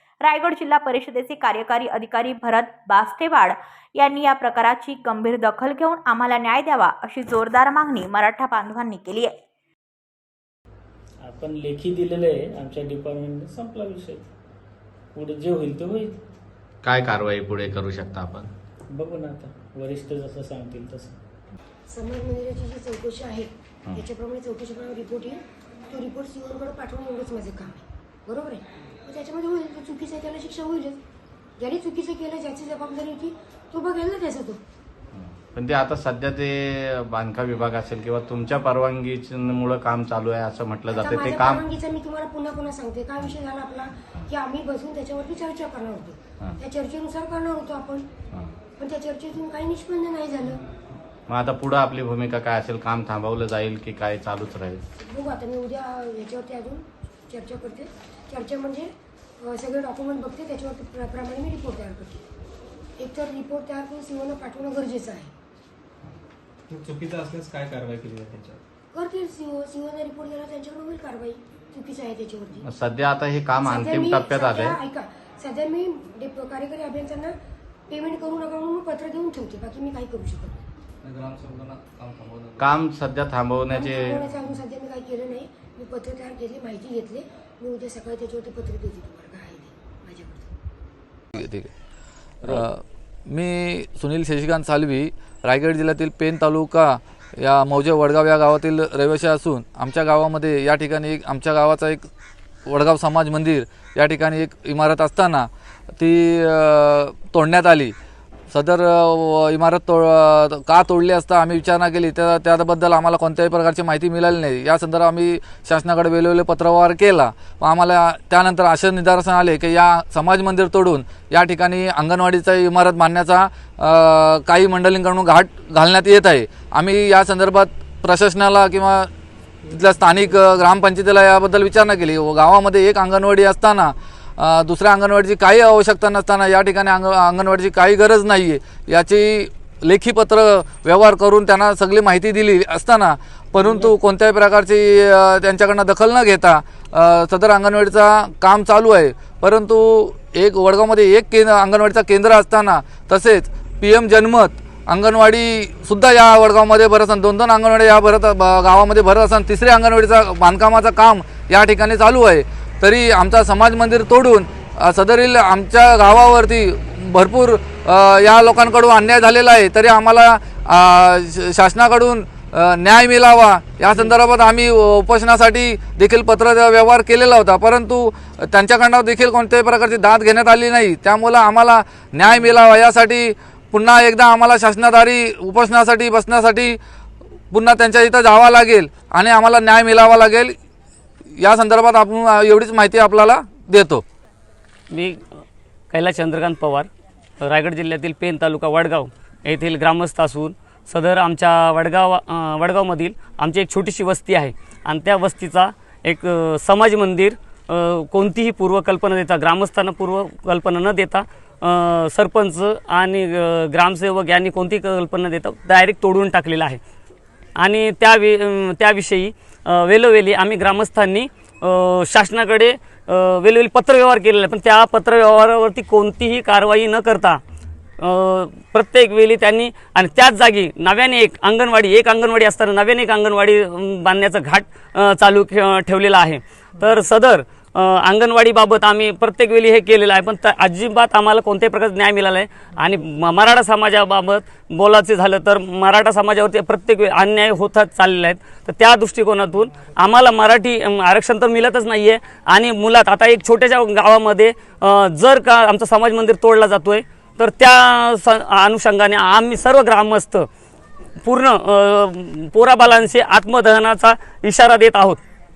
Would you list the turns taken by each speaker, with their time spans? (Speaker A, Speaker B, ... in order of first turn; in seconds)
Speaker A: 0.2-9.3
Speaker B: 11.2-14.3, 15.1-16.2, 18.9-21.2
Speaker C: 16.8-18.5, 35.1-41.6, 51.3-54.8, 72.6-74.8, 82.6-84.2
Speaker D: 21.9-31.0, 31.6-34.6, 40.9-48.1, 48.8-50.6, 55.0-62.2, 63.0-65.3, 68.9-72.6, 73.6-77.3, 77.9-80.6, 83.7-90.5
Speaker E: 66.7-68.6, 81.0-82.9
Speaker F: 91.3-91.7, 92.4-102.1, 102.7-105.5, 106.0-107.9, 108.5-129.1, 129.7-186.8, 187.5-190.5, 191.4-194.0
Speaker G: 194.9-195.2, 195.9-196.9, 197.4-216.8, 217.6-227.4, 228.0-260.5, 261.2-265.2